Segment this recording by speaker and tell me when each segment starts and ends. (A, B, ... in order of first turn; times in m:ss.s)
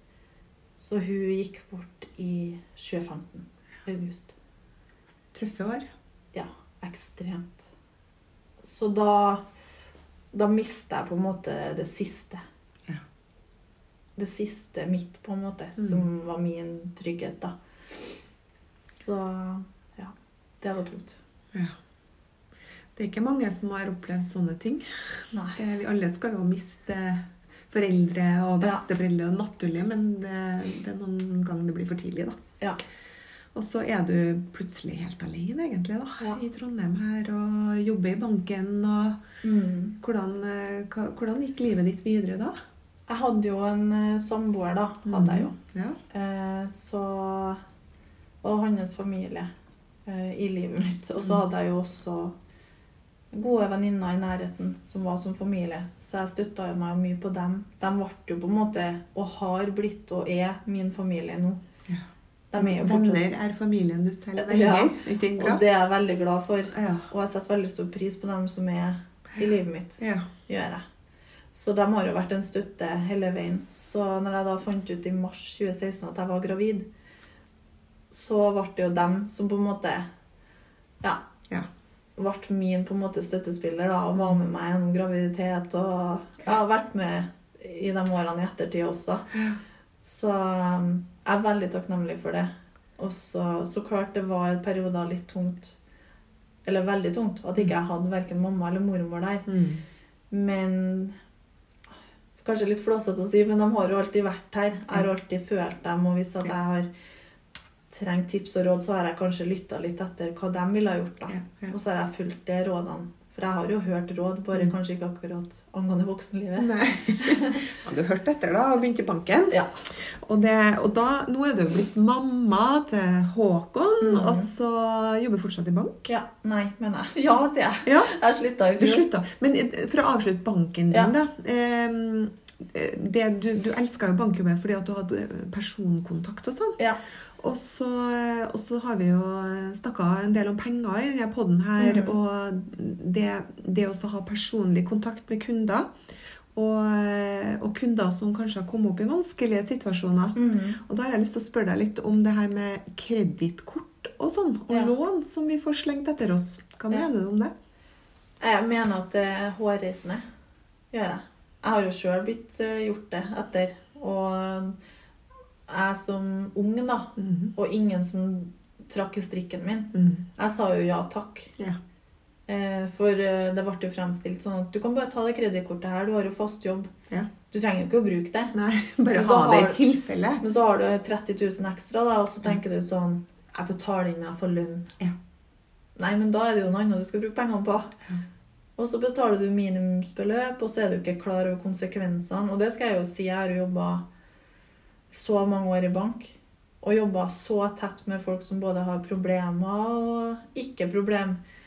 0:00.8-0:04.3 A
0:05.3-0:05.8 B
0:06.3-0:07.6 A
0:08.6-0:09.4 A
0:10.3-0:12.4 A
0:14.2-0:17.5 A
0:15.8-0:16.0 B
0:18.8-0:21.2 A
0:22.9-0:32.4 B
0:25.3-0:25.6 A
0:33.5-0:39.2 B
0:39.4-0:40.0 A
0:40.0-0:42.5 B
0:43.1-0:45.6 A
0:45.0-0:46.0 B
0:46.1-0:47.6 A
0:48.4-0:49.5 A
0:50.0-0:52.3 A
0:53.3-1:01.6 A
1:02.5-1:03.2 A
1:02.6-1:05.6 B
1:04.4-1:10.8 A
1:06.7-1:07.1 B
1:10.0-1:10.3 B
1:11.5-1:16.9 A
1:18.1-1:20.0 A
1:22.2-1:29.3 A
1:29.3-1:29.6 B
1:30.0-1:35.7 A
1:36.6-1:39.5 A
1:39.5-1:39.8 B
1:40.3-1:41.1 A
1:42.4-1:46.9 A
1:47.9-1:57.6 A
1:51.3-1:51.7 B
1:56.6-2:06.1 B
1:59.5-1:59.8 A
2:04.0-2:04.5 A
2:06.1-2:09.0 A
2:07.8-2:08.1 B
2:08.8-2:16.8 B
2:17.4-2:25.9 B
2:21.8-2:22.2 A
2:26.5-2:37.5 B
2:30.4-2:30.8 A
2:38.4-2:40.2 A
2:40.9-2:44.8 A
2:45.7-2:51.5 A
2:47.2-2:47.5 B
2:49.9-2:50.2 B
2:52.5-2:56.9 A
2:57.5-2:58.5 A
2:58.5-3:00.4 B
2:59.1-2:59.8 A
3:00.4-3:04.9 A
3:06.0-3:07.9 A
3:08.8-3:14.0 A
3:15.1-3:21.4 A